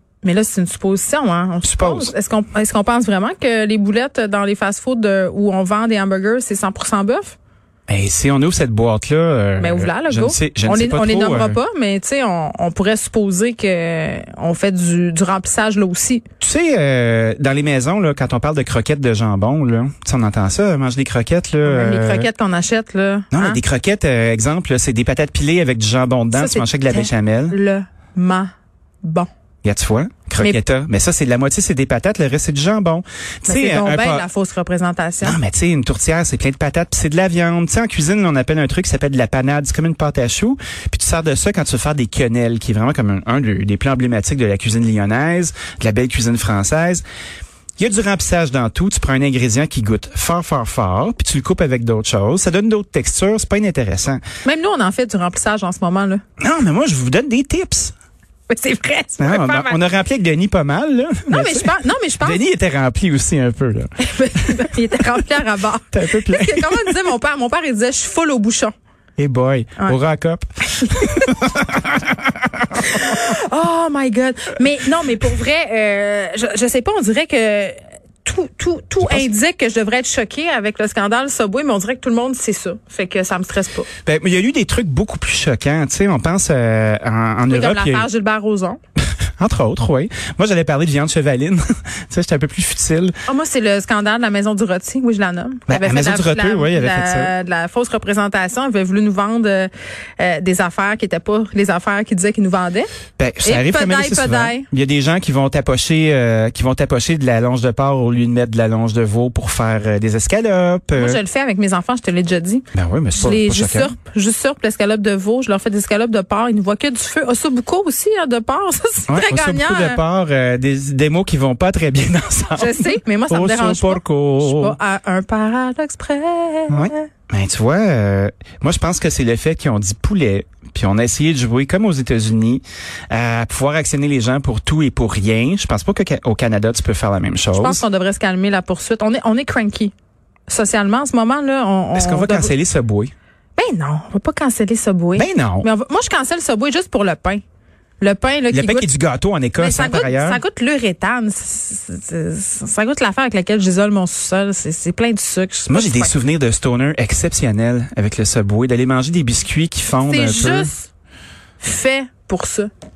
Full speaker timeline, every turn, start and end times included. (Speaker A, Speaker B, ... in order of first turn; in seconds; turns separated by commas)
Speaker A: 0.2-7.3, Speaker B: 1.6-2.1, Speaker B: 7.9-11.6, Speaker A: 9.6-16.2, Speaker B: 16.4-22.3, Speaker A: 21.6-23.6, Speaker B: 23.3-27.6, Speaker A: 26.3-28.5, Speaker A: 29.0-29.3, Speaker B: 29.6-34.2, Speaker A: 33.5-35.4, Speaker B: 35.2-47.0, Speaker B: 47.8-54.2, Speaker A: 54.4-56.2, Speaker B: 56.4-57.9, Speaker A: 58.5-59.8, Speaker B: 59.2-61.7, Speaker A: 61.3-62.4, Speaker B: 62.2-63.9, Speaker A: 64.0-68.7, Speaker B: 65.9-67.0, Speaker B: 69.2-72.4, Speaker A: 70.7-71.5, Speaker A: 72.7-83.9, Speaker B: 79.0-79.3, Speaker B: 84.0-88.1, Speaker A: 87.5-88.8, Speaker B: 89.4-93.2, Speaker A: 93.3-102.9, Speaker B: 95.7-97.3, Speaker B: 103.2-111.2, Speaker A: 103.4-104.7, Speaker A: 111.0-120.0, Speaker B: 112.7-113.9, Speaker B: 119.1-124.8, Speaker A: 122.5-127.0, Speaker B: 126.7-137.8, Speaker A: 137.6-139.9, Speaker A: 140.5-142.5, Speaker B: 141.9-143.1, Speaker A: 143.6-147.4, Speaker B: 145.1-145.7, Speaker A: 148.0-148.9, Speaker B: 148.5-150.4, Speaker A: 149.6-156.1, Speaker B: 155.7-160.7, Speaker A: 160.0-160.9, Speaker A: 161.6-162.7